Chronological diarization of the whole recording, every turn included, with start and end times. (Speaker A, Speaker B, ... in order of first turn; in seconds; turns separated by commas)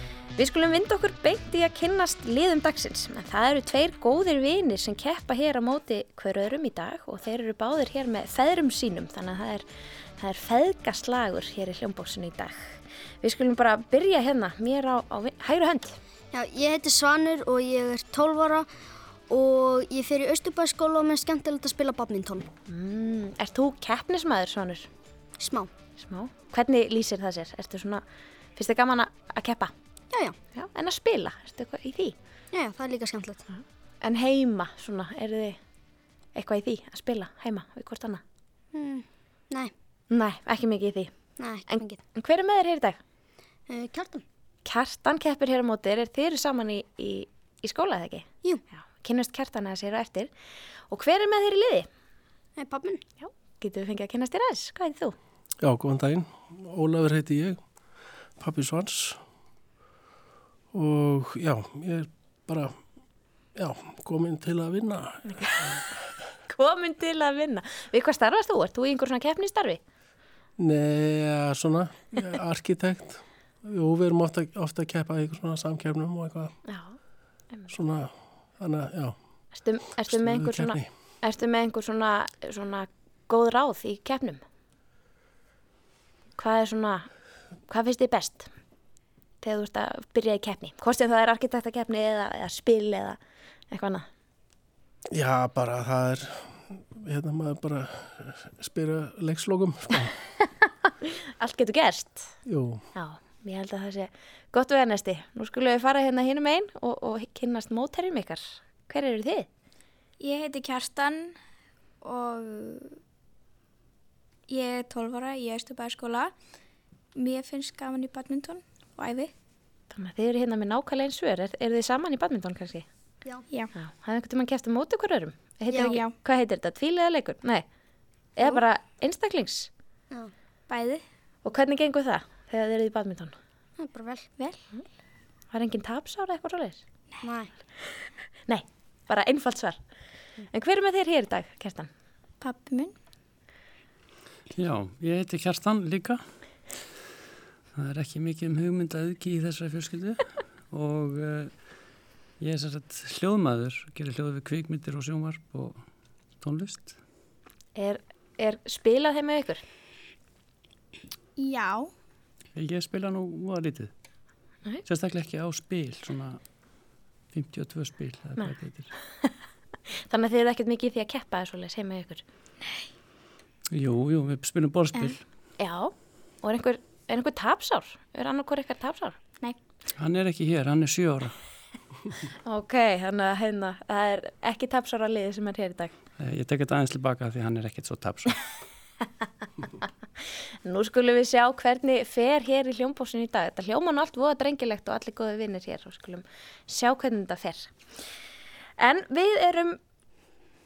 Speaker A: 0.4-9.7, Speaker A: 10.2-16.0, Speaker B: 16.3-18.7, Speaker B: 19.3-22.5, Speaker A: 22.7-24.9, Speaker B: 25.4-25.7, Speaker A: 26.0-28.0, Speaker A: 28.6-29.7, Speaker A: 30.6-32.1, Speaker B: 32.5-33.5, Speaker A: 33.6-35.6, Speaker A: 36.4-38.2, Speaker B: 38.7-39.7, Speaker A: 40.1-41.1, Speaker B: 41.4-42.0, Speaker A: 41.7-43.0, Speaker B: 43.7-44.2, Speaker A: 44.6-50.3, Speaker A: 50.9-51.9, Speaker B: 52.6-53.0, Speaker A: 53.2-55.1, Speaker C: 55.6-57.6, Speaker C: 58.4-59.2, Speaker C: 60.7-62.8, Speaker C: 63.6-65.2, Speaker A: 65.3-65.8, Speaker A: 66.5-69.8, Speaker C: 70.6-76.5, Speaker A: 76.7-77.0, Speaker C: 77.7-79.2, Speaker A: 79.5-84.4, Speaker C: 80.1-80.9, Speaker A: 86.4-87.1, Speaker A: 87.7-88.5, Speaker A: 89.4-93.2, Speaker A: 93.7-94.0, Speaker C: 95.1-100.1, Speaker A: 101.0-102.3, Speaker C: 102.5-102.8, Speaker A: 103.0-109.5, Speaker D: 110.2-111.4, Speaker D: 112.0-113.0, Speaker D: 114.5-116.3, Speaker D: 117.2-119.3, Speaker A: 119.9-122.9, Speaker A: 123.7-127.7, Speaker B: 125.7-126.0, Speaker A: 128.4-129.7, Speaker D: 130.7-131.0, Speaker A: 131.4-133.3, Speaker B: 133.8-134.3, Speaker A: 135.5-136.8, Speaker B: 137.2-137.5, Speaker A: 138.5-139.8, Speaker A: 140.5-141.9, Speaker D: 142.4-142.9, Speaker E: 144.5-146.2, Speaker E: 147.8-151.5, Speaker E: 152.4-155.8, Speaker E: 156.4-156.9, Speaker A: 157.8-159.6, Speaker D: 161.4-161.9, Speaker E: 162.6-163.9, Speaker E: 164.8-166.4, Speaker E: 167.3-168.9, Speaker A: 170.0-172.2, Speaker E: 173.7-175.2, Speaker A: 175.6-179.2, Speaker E: 180.0-181.3, Speaker A: 182.4-185.9, Speaker E: 186.2-188.4, Speaker A: 190.7-197.7, Speaker A: 198.8-199.8